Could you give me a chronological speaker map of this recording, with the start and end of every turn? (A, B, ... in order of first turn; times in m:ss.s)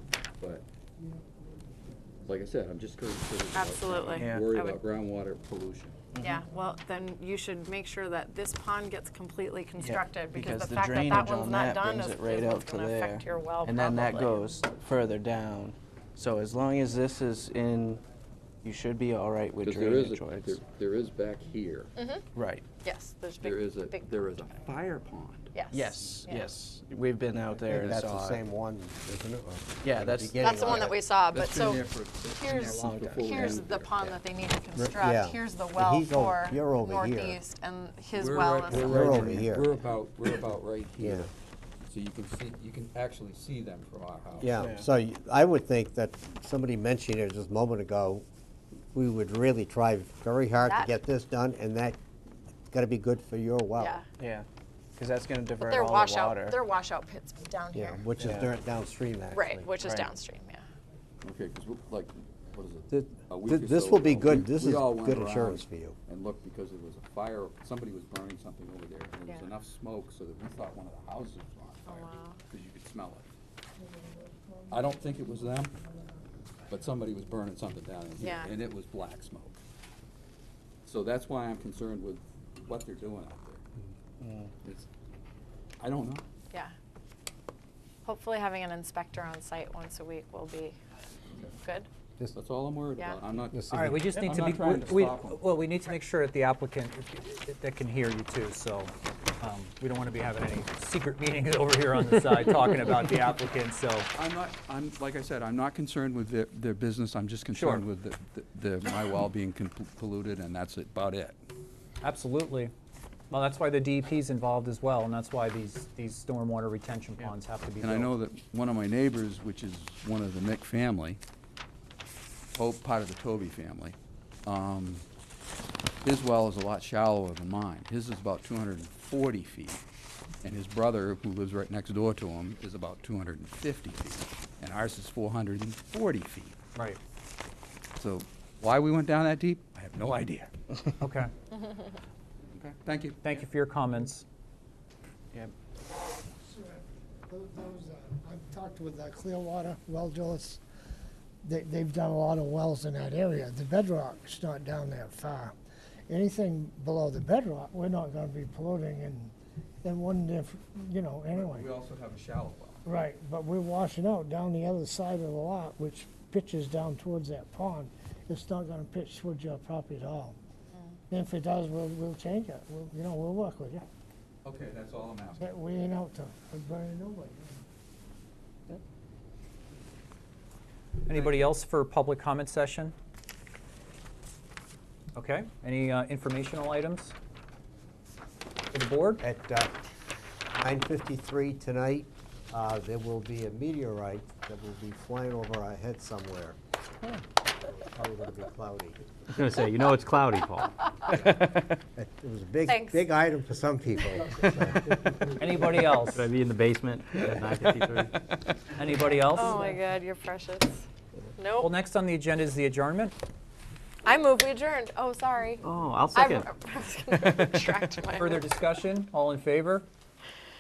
0:00.4-0:00.6 A
0:02.2-0:06.0 A
0:03.5-0:04.8 B
0:04.1-0:04.5 C
0:06.1-0:06.4 C
0:06.2-0:14.3 B
0:09.8-0:18.0 C
0:18.6-0:20.6 C
0:19.6-0:21.9 A
0:22.0-0:22.2 B
0:22.3-0:22.7 C
0:22.8-0:24.1 B
0:23.4-0:25.5 A
0:25.5-0:26.5 B
0:25.7-0:28.4 C
0:27.7-0:31.0 D
0:29.8-0:30.9 C
0:30.4-0:39.4 B
0:31.3-0:34.2 A
0:32.6-0:33.6 C
0:34.8-0:37.4 D
0:38.1-0:41.3 A
0:38.7-0:39.7 D
0:41.0-0:41.3 D
0:41.9-0:44.7 A
0:44.4-0:48.2 D
0:44.4-0:44.9 C
0:48.9-0:52.0 D
0:50.6-0:50.9 B
0:52.7-0:54.0 D
0:53.8-0:54.1 B
0:54.2-0:56.6 C
0:55.6-0:58.0 B
0:57.7-0:59.8 D
0:58.2-0:58.6 C
0:59.3-1:00.6 B
0:59.8-1:00.1 C
1:01.2-1:13.3 A
1:02.9-1:06.0 D
1:11.9-1:12.4 B
1:14.7-1:15.8 A
1:16.7-1:19.6 A
1:18.2-1:18.5 B
1:20.8-1:23.6 A
1:24.2-1:24.5 C
1:25.8-1:26.2 A
1:28.0-1:30.8 B
1:31.6-1:31.9 B
1:32.3-1:35.4 A
1:33.5-1:34.0 D
1:33.7-1:44.1 E
1:44.1-1:51.4 A
1:47.6-1:47.8 E
1:52.0-1:52.7 E
1:53.3-1:58.1 E
1:57.8-2:01.2 A
2:02.6-2:05.0 A
2:06.0-2:09.8 A
2:10.4-2:16.6 A
2:18.0-2:20.5 A
2:21.0-2:21.3 E
2:22.5-2:23.4 A
2:23.2-2:24.2 E
2:26.5-2:30.6 F
2:31.4-2:35.5 F
2:36.1-2:41.7 F
2:41.3-2:42.8 A
2:42.8-2:50.4 F
2:51.1-2:53.8 F
2:54.4-2:55.5 A
2:55.4-2:57.6 F
3:01.0-3:02.9 E
3:01.1-3:01.5 A
3:05.2-3:07.1 E
3:08.7-3:09.2 E
3:09.2-3:09.8 D
3:10.5-3:16.6 D
3:17.6-3:19.4 D
3:19.3-3:21.7 G
3:21.1-3:21.4 D
3:21.9-3:25.2 D
3:22.6-3:23.1 B
3:25.4-3:26.3 E
3:26.1-3:28.2 G
3:28.8-3:29.8 E
3:29.3-3:30.8 B
3:31.4-3:31.7 B
3:31.6-3:33.2 E
3:34.0-3:38.5 B
3:35.6-3:36.5 G
3:38.2-3:39.8 E